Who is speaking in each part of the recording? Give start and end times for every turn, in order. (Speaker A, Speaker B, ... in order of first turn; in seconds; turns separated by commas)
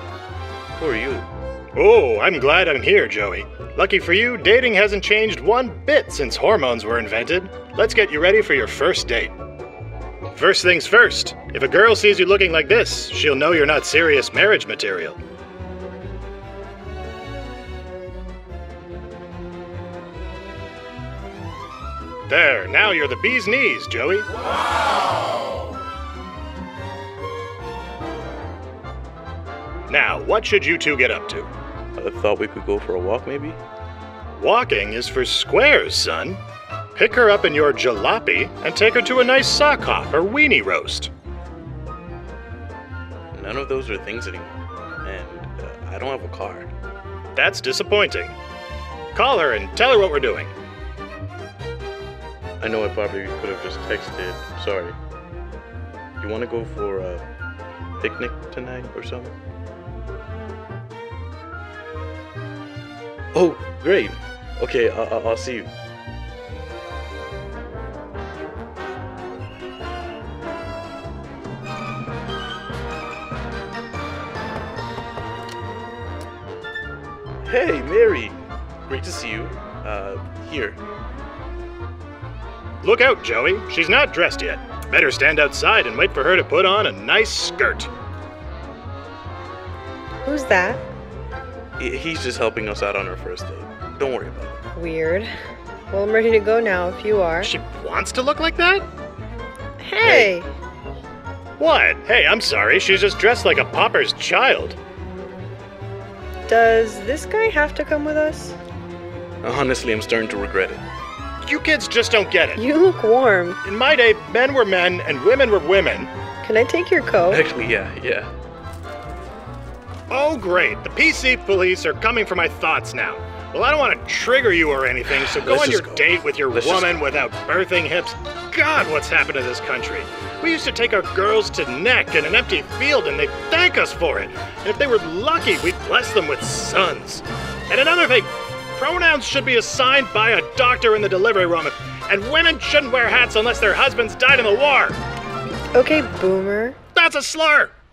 Speaker A: 0.8-1.3, Speaker B: 1.8-9.3, Speaker B: 10.3-15.2, Speaker B: 22.3-24.3, Speaker B: 29.9-31.5, Speaker A: 32.0-33.6, Speaker B: 34.4-36.4, Speaker B: 37.0-41.1, Speaker A: 43.3-46.7, Speaker B: 47.4-48.3, Speaker B: 49.1-50.5, Speaker A: 52.6-55.0, Speaker A: 56.2-57.2, Speaker A: 58.0-59.4, Speaker A: 63.3-65.7, Speaker A: 77.5-80.8, Speaker B: 82.8-87.9, Speaker C: 90.2-90.8, Speaker A: 91.8-94.6, Speaker C: 94.7-95.3, Speaker C: 95.9-97.5, Speaker B: 97.4-98.9, Speaker C: 99.8-100.5, Speaker A: 100.0-100.3, Speaker B: 101.6-104.8, Speaker C: 106.5-108.6, Speaker A: 109.4-110.8, Speaker B: 111.4-112.6, Speaker C: 112.5-113.6, Speaker B: 113.6-116.1, Speaker C: 116.4-117.4, Speaker A: 117.3-118.3, Speaker B: 120.1-145.0, Speaker A: 125.3-127.0, Speaker C: 145.7-146.8, Speaker B: 146.9-147.7